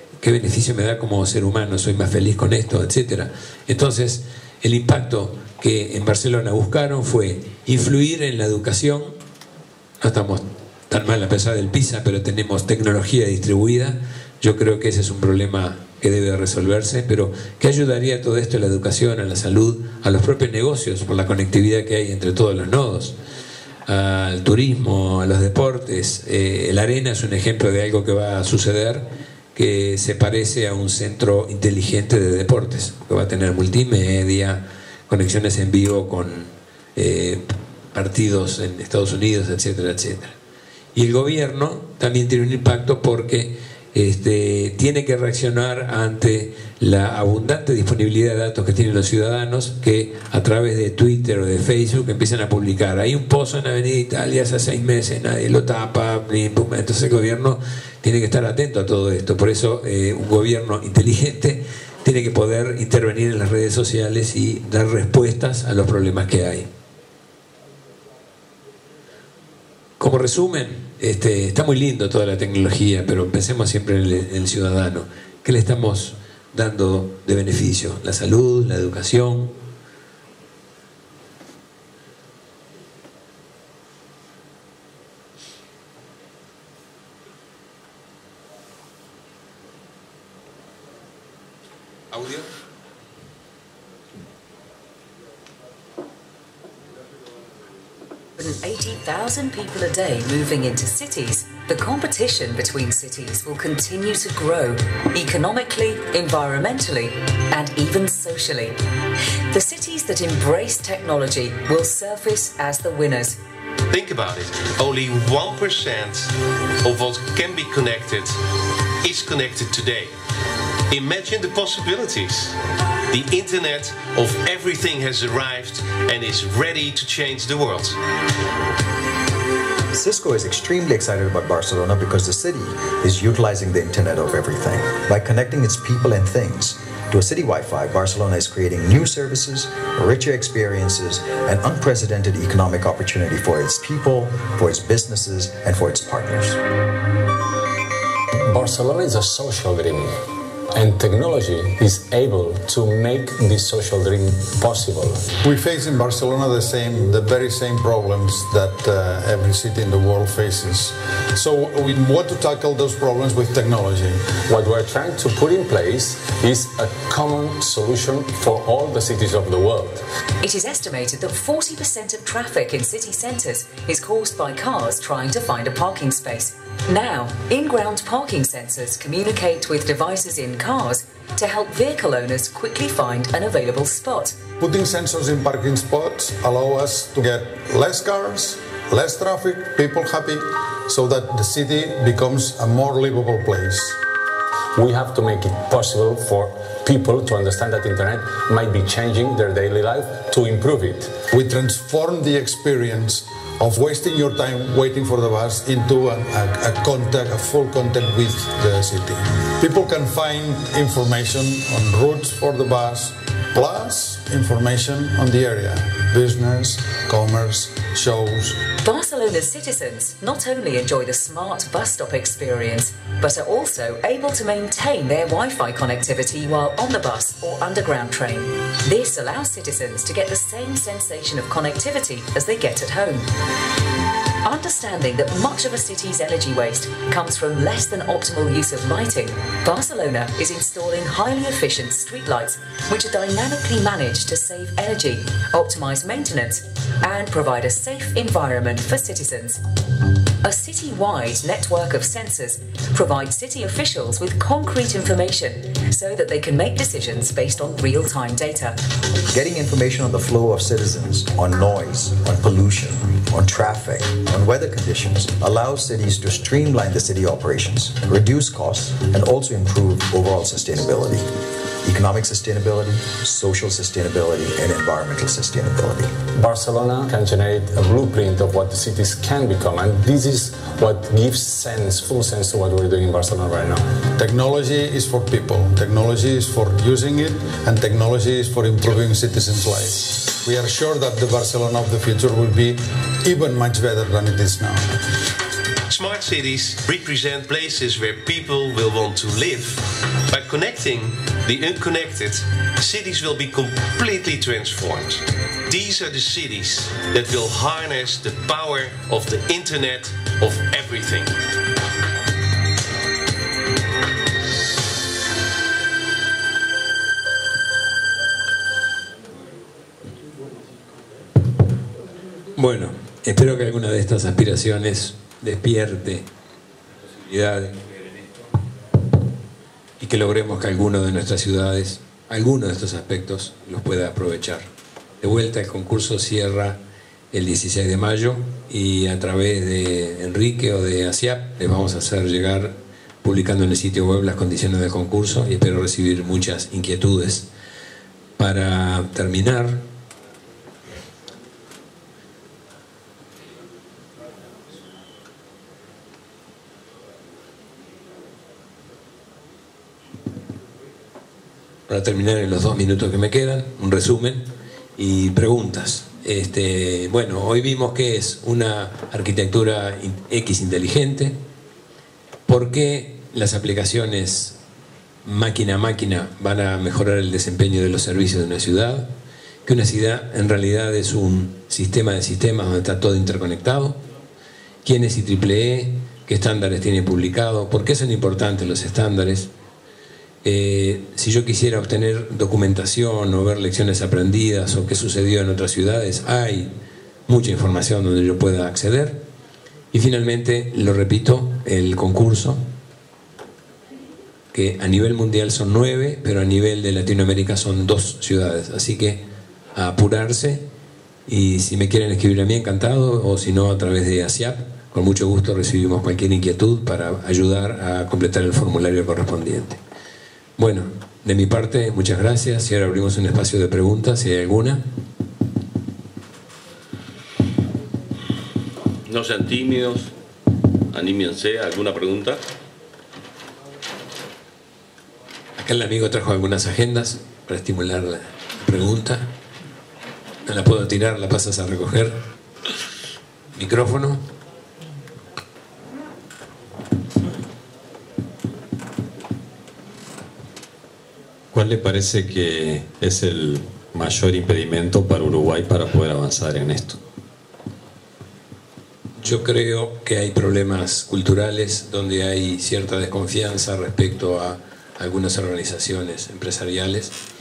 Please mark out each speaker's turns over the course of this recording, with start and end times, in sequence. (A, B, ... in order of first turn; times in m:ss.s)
0:00.2-0:09.1 A
0:10.0-0:23.2 A
0:23.9-0:40.4 A
0:41.0-1:06.7 A
1:10.0-1:19.6 A
1:32.1-1:32.5 A
1:38.4-1:48.8 B
1:49.5-1:53.4 B
1:53.9-1:58.4 C
1:59.0-2:00.2 C
2:00.9-2:02.6 C
2:03.1-2:08.0 C
2:09.9-2:26.6 D
2:28.4-2:30.2 E
2:30.8-2:35.3 E
2:35.4-2:44.4 F
2:44.5-2:50.0 E
2:50.4-3:04.4 B
3:04.6-3:14.0 F
3:14.8-3:21.2 E
3:21.3-3:38.6 F
3:38.8-3:53.3 B
3:54.4-4:09.6 B
4:10.4-4:18.8 B
4:19.3-4:31.3 D
4:31.8-4:36.2 D
4:36.4-4:44.0 E
4:44.2-4:54.9 F
4:55.9-5:11.4 C
5:22.6-5:26.3 A
5:27.2-5:27.8 A
5:30.0-5:34.7 A
5:35.2-5:36.8 A
5:37.3-5:47.5 A
5:48.4-5:49.8 A
6:01.9-6:11.4 A
6:12.5-6:14.6 A
6:15.2-6:19.1 A
6:19.6-6:24.0 A
6:24.8-6:29.5 A
6:30.4-6:36.7 A
6:37.3-6:39.3 A
6:39.9-6:42.6 A
6:44.5-6:49.2 A
6:49.8-6:50.6 A
6:51.3-6:59.8 A
7:00.6-7:04.8 A
7:09.0-7:10.1 G
7:10.9-7:12.4 G
7:15.6-7:19.3 A
7:20.5-7:22.2 A
7:23.6-7:24.2 A
7:31.5-7:37.0 H
7:39.2-7:47.2 A